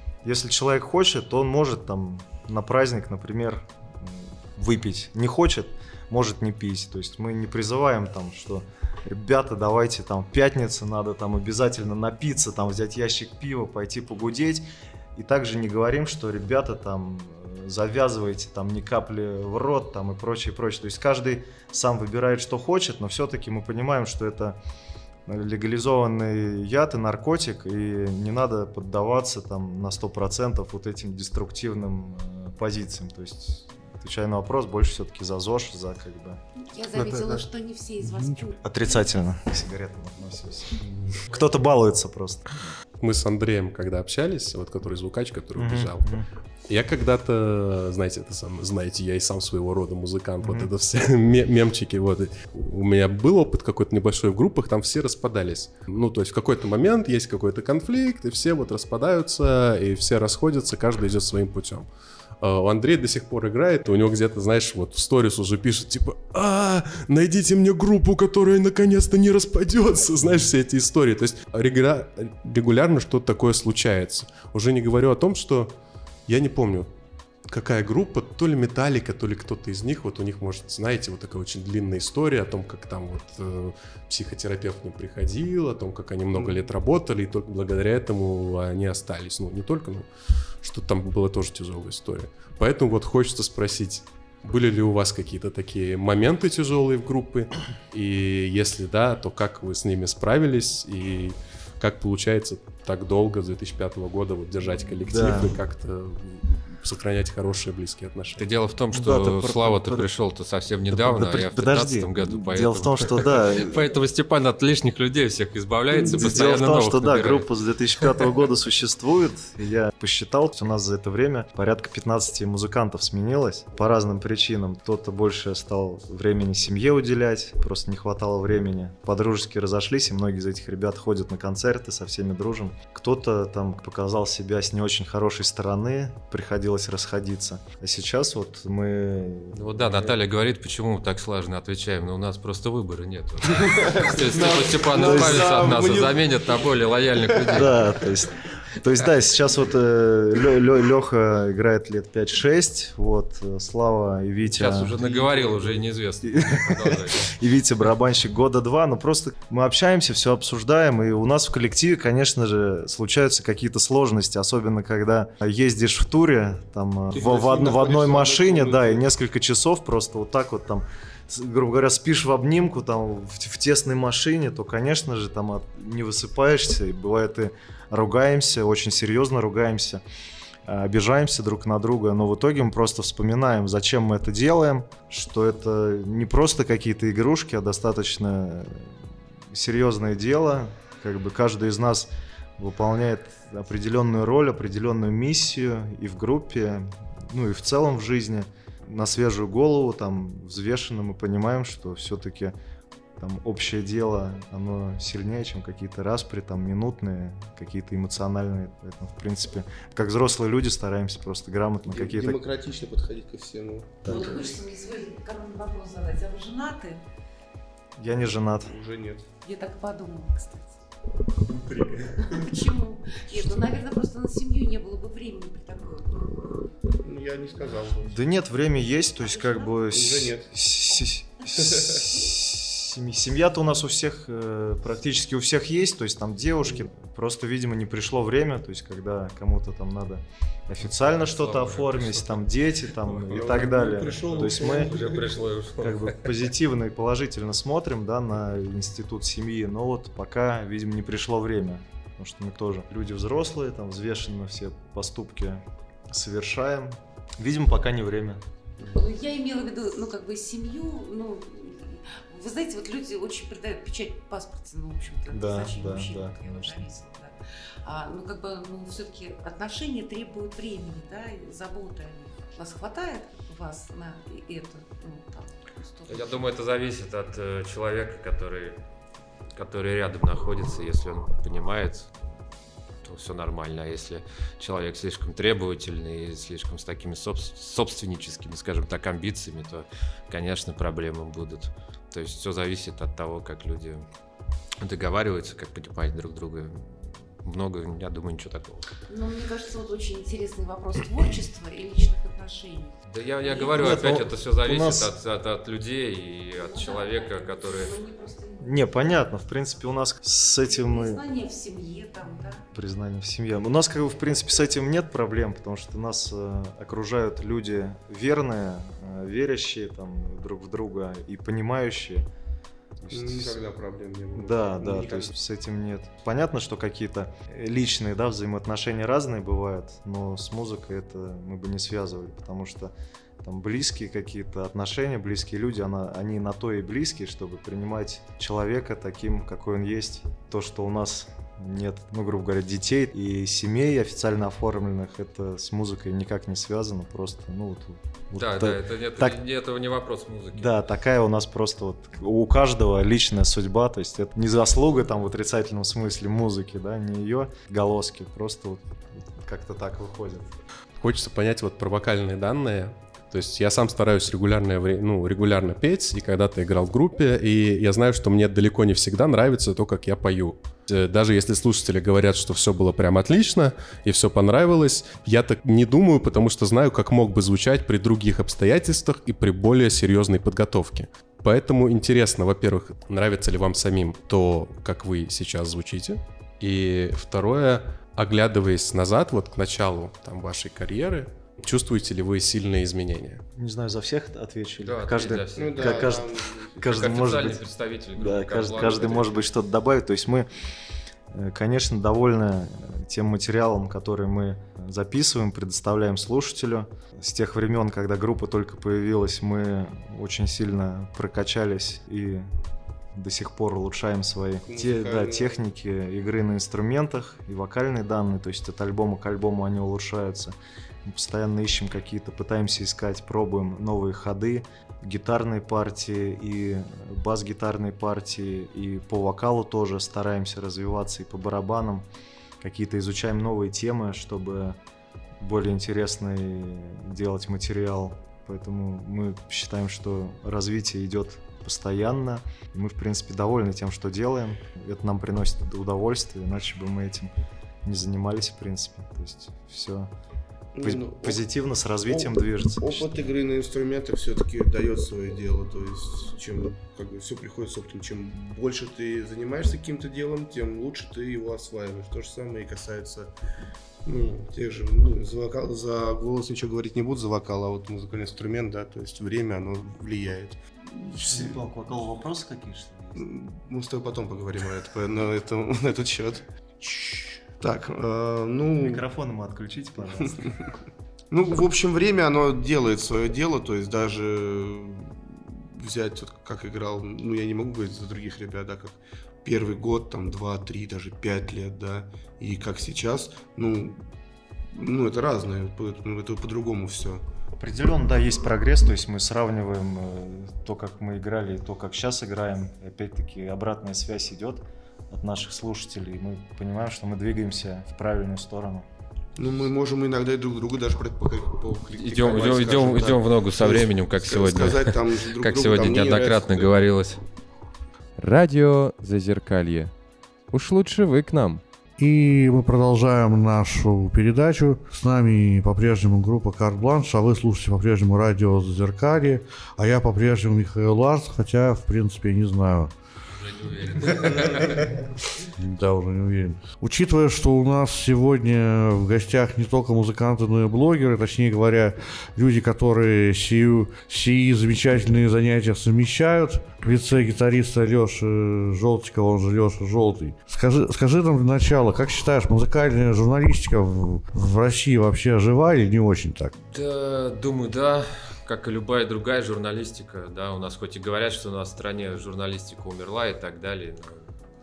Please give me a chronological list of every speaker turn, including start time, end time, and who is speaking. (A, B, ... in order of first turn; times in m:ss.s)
0:00.2-0:24.6 A
0:25.2-0:36.4 A
0:36.6-0:39.0 B
0:36.9-0:37.4 A
0:38.0-0:38.4 C
0:38.6-0:42.7 A
0:43.0-1:01.9 D
0:45.6-0:46.2 A
0:50.4-0:50.7 A
1:02.4-1:15.7 D
1:16.3-1:16.9 D
1:17.5-1:48.4 D
1:45.0-1:45.5 A
1:48.4-1:57.5 E
1:48.9-1:50.1 A
1:50.9-1:53.8 A
1:55.9-1:56.2 F
1:56.0-2:20.2 A
2:19.5-2:28.0 E
2:23.5-2:27.7 F
2:24.9-2:25.9 A
2:27.5-2:35.3 A
2:34.5-2:37.3 E
2:36.2-3:00.0 A
2:47.1-2:49.0 F
3:00.6-3:09.0 A
3:09.5-3:22.6 A
3:23.2-3:32.4 A
3:31.9-3:34.6 F
3:34.0-3:34.4 A
3:34.1-3:37.0 B
3:38.0-3:38.7 A
3:38.6-3:39.3 F
3:39.4-3:40.8 B
3:41.5-3:42.4 D
3:42.2-3:46.3 B
3:47.0-3:48.2 F
3:48.0-4:05.0 A
3:49.3-3:49.7 B
3:49.9-3:50.5 F
3:51.6-3:52.0 F
4:00.8-4:03.6 E
4:03.3-4:05.4 F
4:04.3-4:06.3 E
4:05.8-4:18.4 A
4:18.9-4:36.4 B
4:25.3-4:26.9 A
4:36.1-4:38.8 E
4:39.5-4:42.1 E
4:43.0-4:54.0 E
4:54.8-4:58.9 E
4:59.1-5:04.0 B
5:03.1-5:07.9 E
5:03.7-5:05.1 A
5:06.6-5:09.3 B
5:08.6-5:11.2 A
5:10.6-5:12.6 B
5:12.6-5:22.3 A
5:23.0-5:23.6 A
5:23.1-5:25.3 F
5:24.3-5:49.4 A
5:48.4-5:50.8 E
5:50.5-6:00.5 A
6:01.0-6:33.4 D
6:33.5-6:37.6 A
6:34.8-6:36.2 E
6:35.6-6:36.9 F
6:36.8-6:39.5 E
6:38.2-6:40.5 A
6:41.3-6:52.6 A
6:53.1-7:12.1 A
6:54.7-6:55.6 F
7:12.6-7:14.8 A
7:15.4-7:27.3 A
7:27.8-7:30.1 A
7:30.7-7:31.4 F
7:30.8-7:33.3 A
7:32.1-7:43.3 F
7:44.0-7:51.6 F
7:51.1-7:53.3 A
7:53.1-7:59.0 F
7:58.8-8:00.4 A
8:00.2-8:00.7 F
8:01.3-8:14.0 F
8:14.7-8:17.2 F
8:17.6-8:28.8 A
8:29.4-8:36.7 F
8:31.9-8:37.2 E
8:38.2-8:39.9 G
8:40.5-8:41.6 G
8:42.0-8:52.9 C
8:53.3-8:55.0 E
8:55.6-9:16.5 C
9:16.6-9:24.3 E